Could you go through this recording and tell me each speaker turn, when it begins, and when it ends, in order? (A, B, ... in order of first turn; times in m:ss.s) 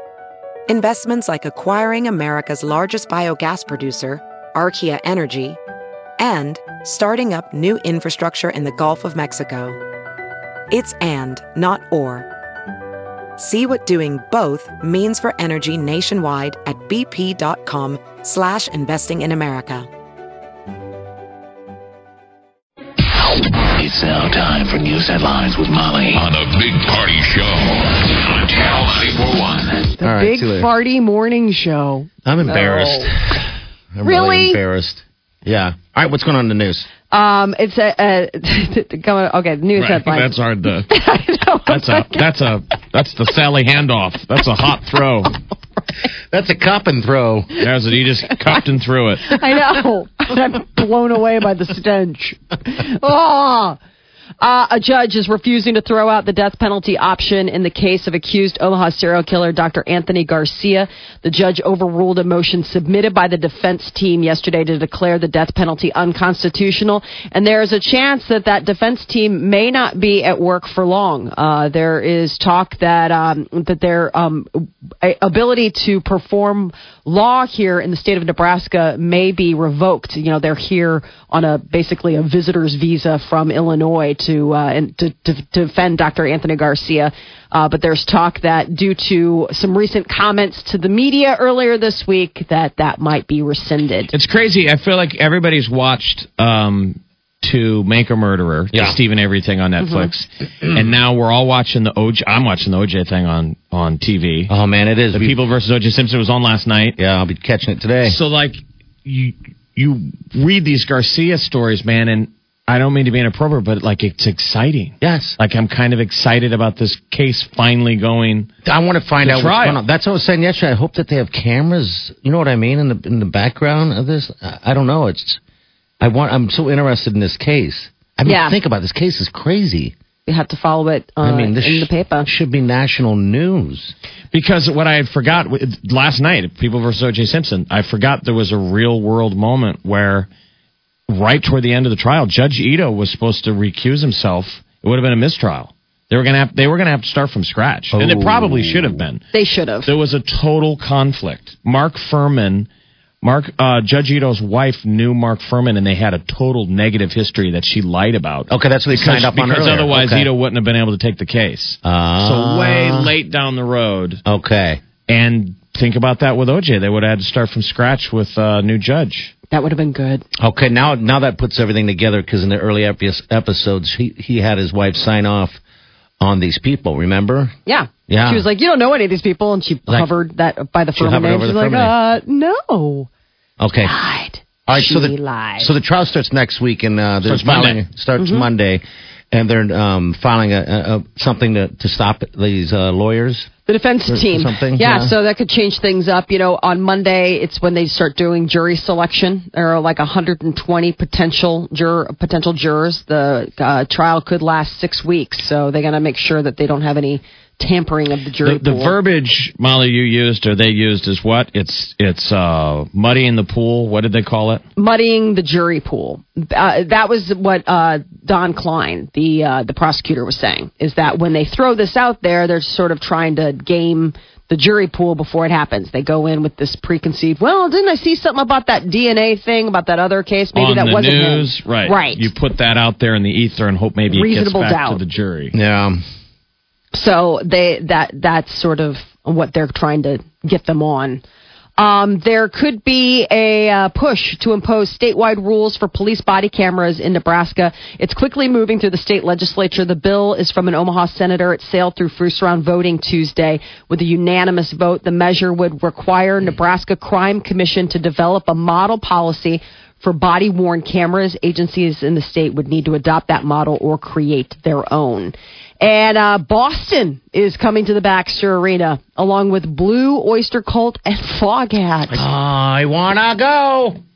0:00.7-0:05.6 A
0:06.2-0:09.8 A
0:10.7-0:12.3 A
0:13.4-0:19.9 A
0:23.7-0:29.9 B
0:30.0-0:33.1 C
0:30.0-0:30.7 D
0:32.2-0:36.9 D
0:34.0-0:34.6 C
0:37.1-0:40.4 C
0:39.8-0:40.9 E
0:40.9-0:42.3 C
0:41.7-0:45.3 E
0:46.3-0:47.6 D
0:47.6-0:49.3 E
0:49.2-0:53.8 C
0:54.4-1:34.1 C
1:34.1-1:44.5 E
1:38.7-1:39.0 D
1:39.8-1:40.1 C
1:44.5-1:45.4 D
1:45.1-1:47.0 E
1:47.0-1:48.2 D
1:48.0-1:58.5 E
1:55.0-1:55.4 D
1:58.6-2:05.4 D
1:59.2-1:59.8 E
2:06.0-2:09.9 D
2:08.2-2:08.6 C
2:10.2-2:12.3 C
2:11.2-2:13.9 D
2:14.3-2:20.3 E
2:21.1-2:29.2 E
2:27.9-2:29.0 D
2:29.3-2:29.9 C
2:29.8-2:32.7 E
2:33.2-2:44.2 E
2:38.5-2:40.3 D
2:41.8-2:43.1 D
2:44.2-2:44.8 D
2:45.1-2:49.3 E
2:49.5-2:50.2 C
2:50.4-2:55.6 D
2:56.2-2:57.5 D
2:57.6-3:03.1 C
2:58.1-2:58.4 D
3:01.0-3:01.9 D
3:03.6-3:03.9 D
3:03.8-3:05.7 C
3:04.7-3:13.5 D
3:07.2-3:07.8 E
3:08.2-3:08.5 C
3:13.6-3:29.0 C
3:14.1-3:15.1 D
3:28.4-3:34.6 E
3:34.8-3:52.3 C
3:50.5-3:55.5 E
3:54.1-3:55.0 C
3:55.5-3:56.0 D
3:56.9-4:01.2 C
4:01.8-4:32.2 C
4:32.1-4:34.0 D